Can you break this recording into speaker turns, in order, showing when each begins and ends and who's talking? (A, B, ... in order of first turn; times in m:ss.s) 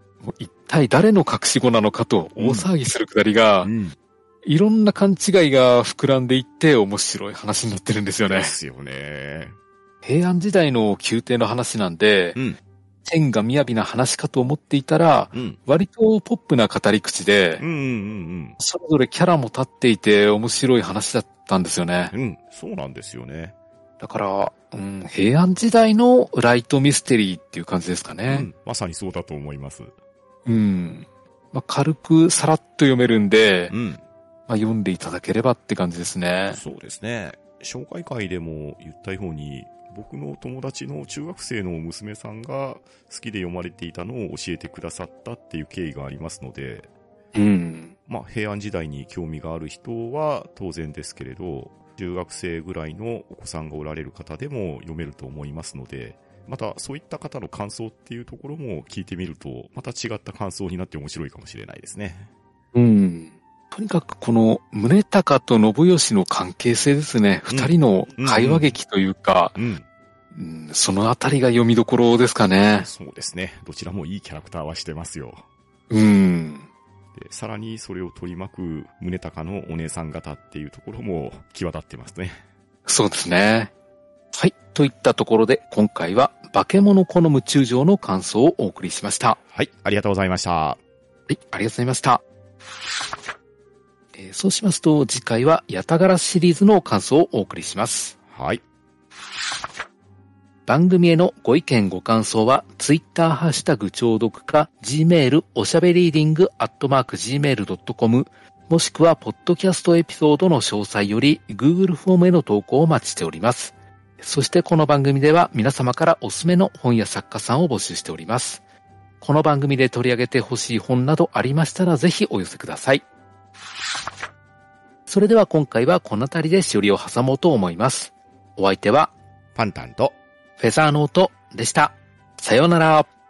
0:00.2-0:03.7 A
0:02.4-0:02.7 B
0:03.6-0:03.9 B
0:04.4-0:08.5 A
0:08.3-0:09.5 B
0:10.0-0:12.4 A
0:13.0-0:17.6 A
0:15.3-0:15.6 B
0:17.6-0:18.6 B
0:18.6-0:22.1 A
0:22.1-0:23.5 B
0:24.0-0:28.5 A
0:28.3-0:29.9 B
0:30.4-0:33.7 A
0:33.7-0:34.0 B
0:34.5-0:36.6 A
0:36.5-0:46.9 B
0:47.3-0:47.9 A
0:48.1-1:02.3 B
1:02.7-1:09.6 A
1:07.5-1:08.7 B
1:09.6-1:09.8 B
1:10.3-1:12.9 A
1:12.8-1:15.4 B
1:15.9-1:16.6 A
1:17.1-1:22.4 B
1:22.8-1:23.7 A
1:24.3-1:29.4 A
1:29.5-1:30.8 B
1:31.3-1:32.2 A
1:34.1-1:38.2 A
1:38.3-1:38.6 B
1:40.6-1:58.6 A
1:59.2-2:03.0 A
2:05.1-2:09.1 A
2:09.5-2:10.2 B
2:10.6-2:13.1 A